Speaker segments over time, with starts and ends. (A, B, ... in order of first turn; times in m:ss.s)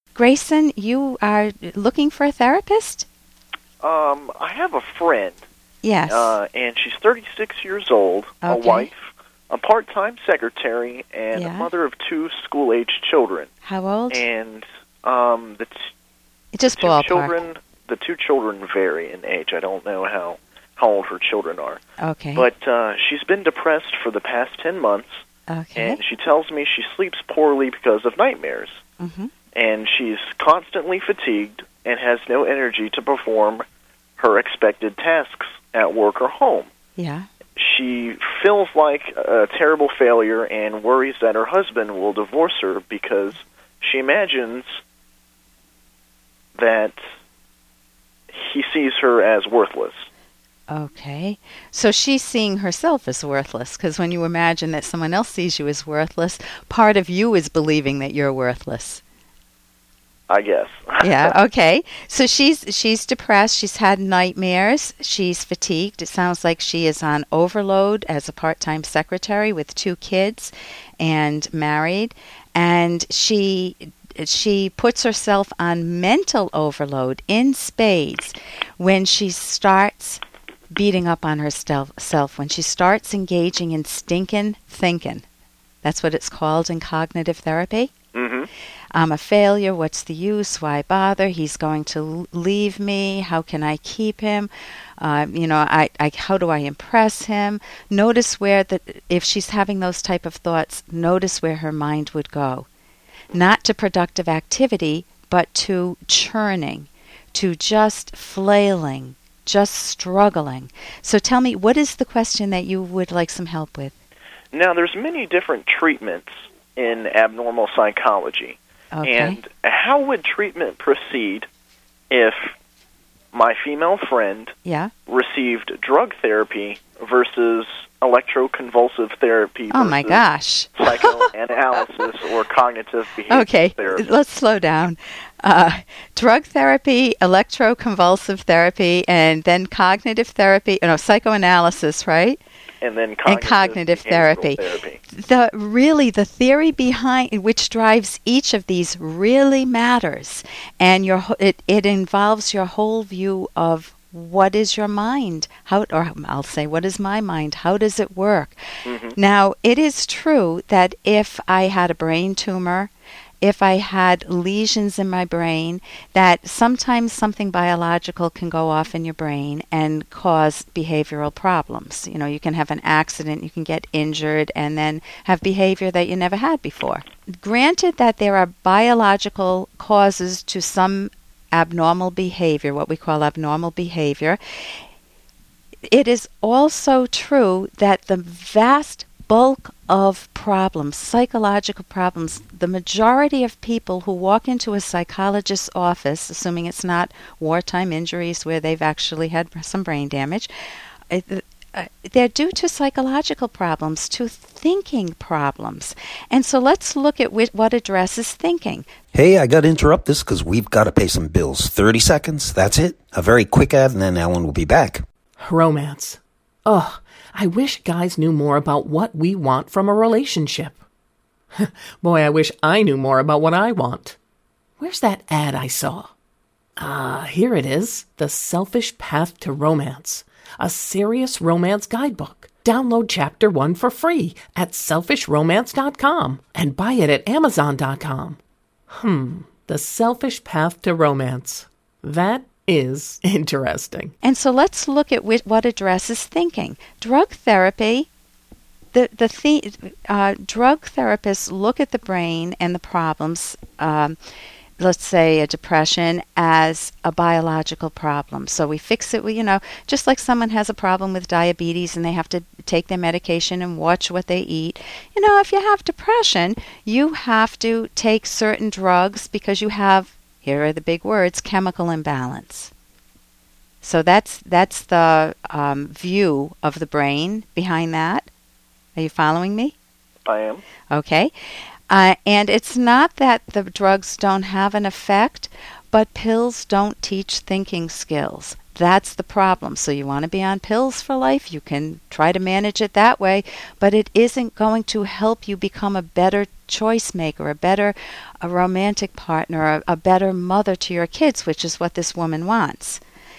0:00.2-0:03.1 A
0:03.8-0:05.4 B
0:05.8-0:06.4 A
0:06.1-0:09.0 B
0:08.4-0:08.9 A
0:09.5-0:13.5 B
0:11.3-0:11.7 A
0:13.6-0:14.2 A
0:14.1-0:15.8 B
0:16.5-0:17.3 A
0:16.7-0:21.8 B
0:22.0-0:22.5 A
0:22.4-0:25.2 B
0:25.5-0:26.0 A
0:25.8-0:28.8 B
0:29.0-0:29.3 A
0:29.6-0:33.6 B
0:34.2-0:36.7 B
0:37.0-0:37.3 A
0:37.6-0:44.7 B
0:46.6-0:47.0 B
0:48.3-0:50.1 B
0:50.7-0:59.0 A
1:00.3-1:01.4 B
1:01.0-1:20.2 A
1:20.7-1:25.2 A
1:25.8-1:27.9 A
1:28.1-1:28.5 B
1:28.9-1:42.7 A
1:43.3-1:54.0 A
1:54.5-2:01.5 B
1:58.9-1:59.4 A
2:02.1-2:02.4 B
2:03.3-2:04.5 B
2:04.6-2:04.9 A
2:05.1-2:10.2 B
2:09.7-2:11.2 A
2:10.8-2:14.1 B
2:13.3-2:22.4 A
2:22.8-2:25.0 B
2:23.2-2:38.6 A
2:38.8-2:39.2 B
2:39.2-2:42.9 A
2:43.4-3:04.4 A
3:05.9-3:20.5 A
3:21.1-3:28.9 A
3:29.1-3:35.0 C
3:35.4-3:40.8 D
3:41.6-3:44.2 D
3:44.8-3:46.1 D
3:46.8-3:58.4 D
3:58.9-4:04.1 D
4:04.2-4:08.1 A
4:08.9-4:14.2 A
4:14.8-4:32.7 A
4:33.8-4:38.3 A
4:39.0-4:39.8 A
4:40.3-4:40.6 B
4:40.9-4:41.3 A
4:41.9-5:03.0 A